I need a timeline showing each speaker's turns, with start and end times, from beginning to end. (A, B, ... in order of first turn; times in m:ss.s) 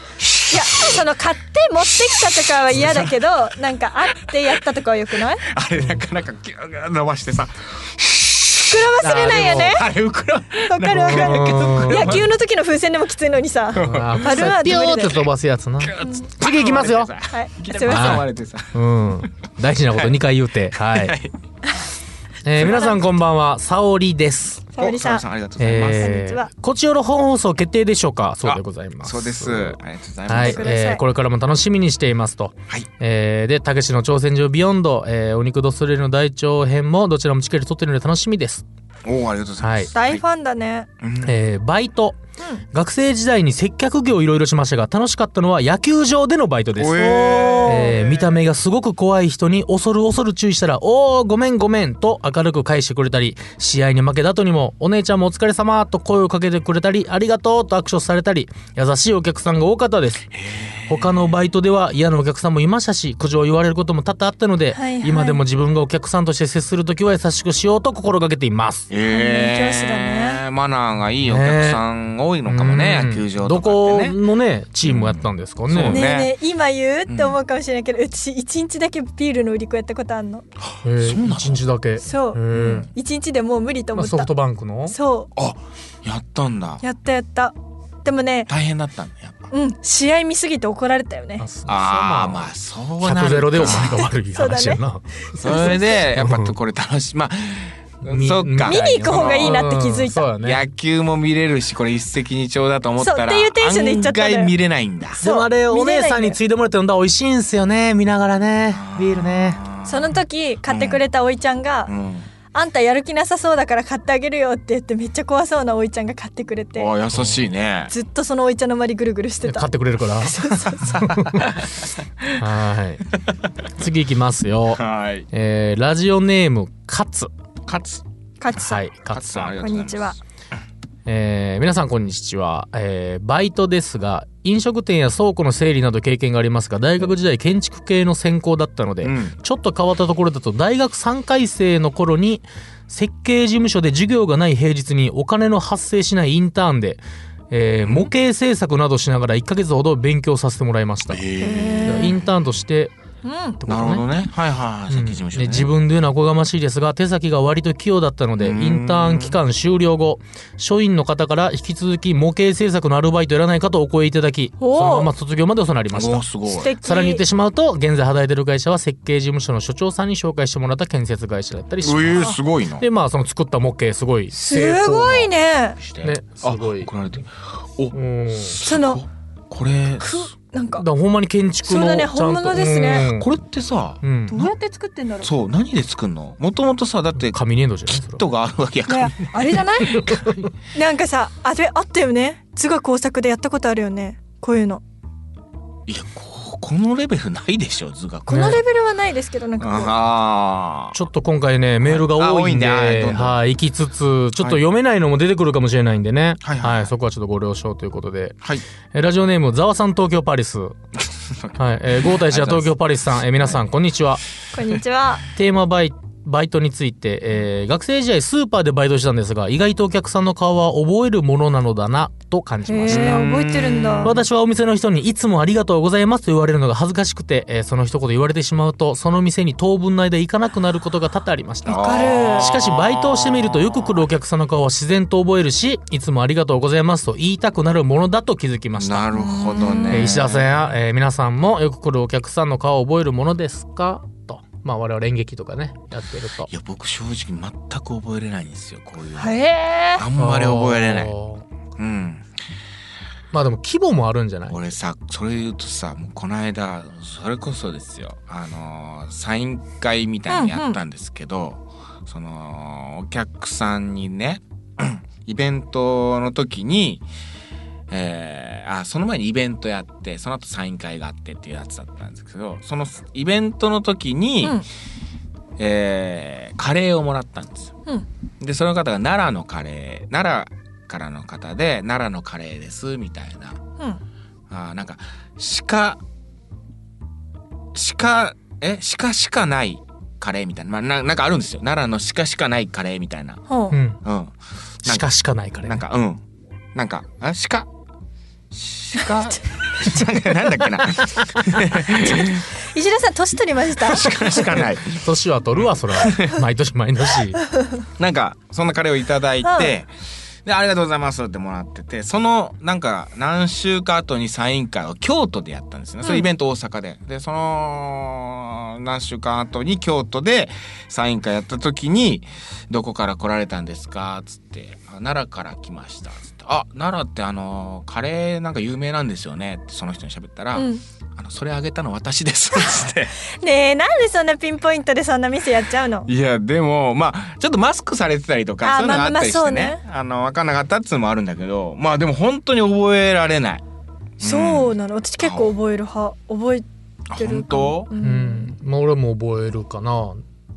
0:00.2-0:01.0 A
0:00.5-0:05.4 B
0:02.7-0:03.1 A
0:05.4-0:08.9 A
0:05.8-0:06.0 C
0:08.7-0:09.9 B
0:09.0-0:09.8 C
0:09.6-0:12.3 A
0:10.7-0:15.2 B
0:11.0-0:12.2 C
0:13.7-0:14.5 A
0:13.8-0:17.1 C
0:15.8-0:18.8 A
0:17.3-0:18.2 B
0:17.9-0:21.2 C
0:20.8-0:21.3 A
0:22.4-0:24.7 C
0:22.5-0:23.1 B
0:24.8-0:25.2 B
0:24.8-0:26.2 A
0:25.6-0:38.6 C
0:25.8-0:26.5 B
0:28.4-0:30.7 A
0:30.3-0:31.0 B
0:39.0-0:40.2 A
0:39.6-0:39.9 C
0:39.9-0:40.9 B
0:41.0-0:41.4 A
0:41.2-0:42.2 C
0:42.7-1:00.3 C
0:46.8-0:48.2 A
0:47.1-0:47.9 B
1:00.3-1:01.3 A
1:00.9-1:08.9 C
1:04.7-1:05.4 B
1:08.9-1:14.2 A
1:09.1-1:10.4 B
1:11.2-1:11.8 C
1:12.4-1:16.1 C
1:14.8-1:16.3 A
1:15.9-1:20.4 B
1:17.1-1:17.4 A
1:20.7-1:21.6 A
1:20.8-1:22.9 C
1:22.0-1:24.3 B
1:22.5-1:22.9 A
1:23.9-1:24.9 C
1:24.9-1:25.3 B
1:25.4-1:26.8 A
1:26.8-1:27.5 B
1:28.0-1:28.5 B
1:28.5-1:29.5 A
1:29.5-1:31.4 B
1:31.4-1:32.5 C
1:31.7-1:34.1 A
1:33.0-1:36.5 C
1:34.3-1:34.8 B
1:35.4-1:39.6 A
1:35.4-1:35.8 B
1:38.0-1:40.6 C
1:38.6-1:40.3 B
1:40.4-1:45.2 A
1:43.0-1:44.5 B
1:45.2-1:46.4 B
1:45.2-1:49.6 C
1:48.7-1:50.1 A
1:49.9-1:51.9 B
1:50.7-1:51.0 A
1:51.9-1:52.3 A
1:52.5-1:56.9 B
1:56.8-1:57.9 A
1:57.1-1:57.4 C
1:57.9-2:01.0 B
1:59.4-2:01.6 C
2:00.8-2:02.4 A
2:02.4-2:03.1 C
2:03.7-2:07.3 C
2:04.7-2:05.2 A
2:07.6-2:08.0 A
2:08.4-2:08.9 B
2:08.6-2:09.5 C
2:09.1-2:10.2 A
2:09.6-2:10.2 B
2:11.1-2:32.9 C
2:19.0-2:19.4 A
2:27.8-2:28.1 A
2:31.1-2:32.2 A
2:31.4-2:32.2 B
2:33.2-2:33.6 B
2:33.6-2:34.0 C
2:33.7-2:35.7 A
2:34.9-2:46.3 C
2:38.4-2:39.4 A
2:44.6-2:45.1 B
2:45.9-2:46.7 A
2:46.5-2:47.2 B
2:46.8-2:55.3 C
2:51.8-2:52.9 A
2:54.3-2:55.8 B
2:55.8-3:00.3 A
2:56.0-2:56.9 C
2:57.9-2:58.6 C
2:58.6-2:59.0 B
3:00.0-3:00.9 B
3:00.8-3:03.3 C
3:01.6-3:03.1 B
3:03.0-3:04.5 A
3:04.0-3:04.5 C
3:04.3-3:05.3 B
3:05.2-3:07.4 A
3:07.2-3:08.2 C
3:07.9-3:10.4 A
3:08.9-3:10.0 B
3:10.0-3:10.5 C
3:10.7-3:14.8 B
3:15.9-3:18.6 A
3:18.3-3:19.9 B
3:18.3-3:18.6 C
3:19.6-3:21.0 A
3:20.9-3:28.4 C
3:21.8-3:23.4 A
3:26.4-3:26.9 A
3:28.9-3:30.7 C
3:31.3-3:32.8 A
3:31.6-3:34.2 C
3:34.5-3:35.3 B
3:35.4-3:43.3 C
3:42.7-3:44.1 B
3:42.9-3:44.1 A
3:44.0-3:59.1 C
3:51.6-3:52.5 B
3:51.6-3:54.0 A
3:58.8-4:00.6 A
3:59.1-4:00.1 B
3:59.9-4:06.5 C
4:06.5-4:09.4 A
4:09.2-4:10.0 B
4:09.9-4:11.1 A
4:10.2-4:11.4 C
4:11.8-4:12.2 A
4:13.3-4:14.6 C
4:14.5-4:27.0 A
4:20.3-4:20.8 B
4:27.9-4:34.6 A
4:35.6-4:37.7 A
4:38.4-4:43.6 A
4:44.5-4:46.0 A
4:47.7-4:53.4 A
4:53.5-4:53.8 B
4:53.7-4:54.0 C
4:54.0-4:55.1 A
4:54.8-4:55.8 C
4:55.6-4:56.2 A
4:56.7-4:57.7 A
4:58.5-5:02.5 A
4:59.8-5:00.1 B
5:01.9-5:04.4 B
5:03.8-5:05.0 A
5:04.8-5:07.4 C
5:05.6-5:06.4 A
5:08.0-5:09.9 A
5:09.4-5:09.7 B
5:10.4-5:33.2 A
5:30.5-5:30.8 B
5:33.4-5:36.1 B
5:36.1-5:43.6 A
5:38.6-5:39.8 B
5:44.2-5:45.5 A
5:44.2-5:48.5 B
5:47.1-5:47.9 A
5:48.0-5:50.2 C